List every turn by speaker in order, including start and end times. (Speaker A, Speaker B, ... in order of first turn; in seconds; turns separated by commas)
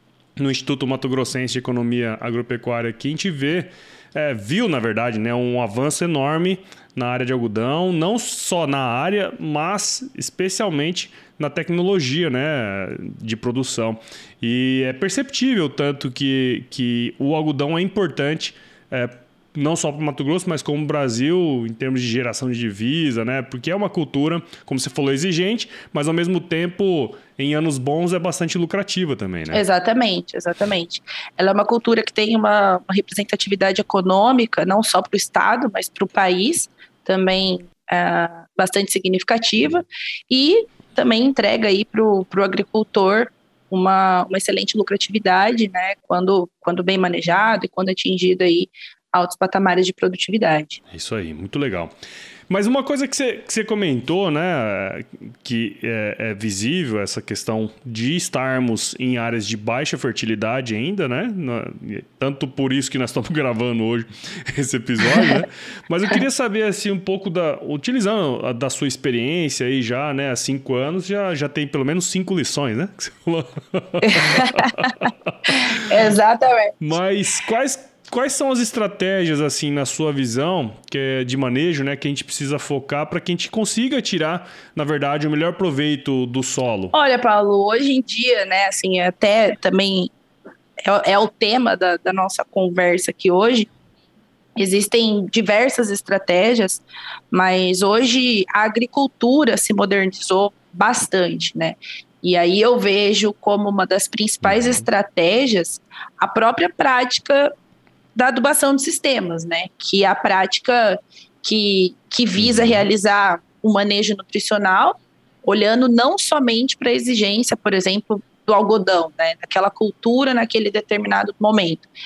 Speaker A: 0.4-29.6, Speaker B: 29.5-50.8, Speaker A: 50.9-51.9, Speaker A: 52.5-75.9, Speaker B: 74.0-74.9, Speaker B: 75.5-76.8, Speaker A: 76.8-86.9, Speaker B: 86.9-90.1, Speaker B: 90.8-93.7, Speaker B: 94.6-107.5, Speaker A: 104.4-104.8, Speaker B: 108.2-121.9, Speaker A: 112.4-112.9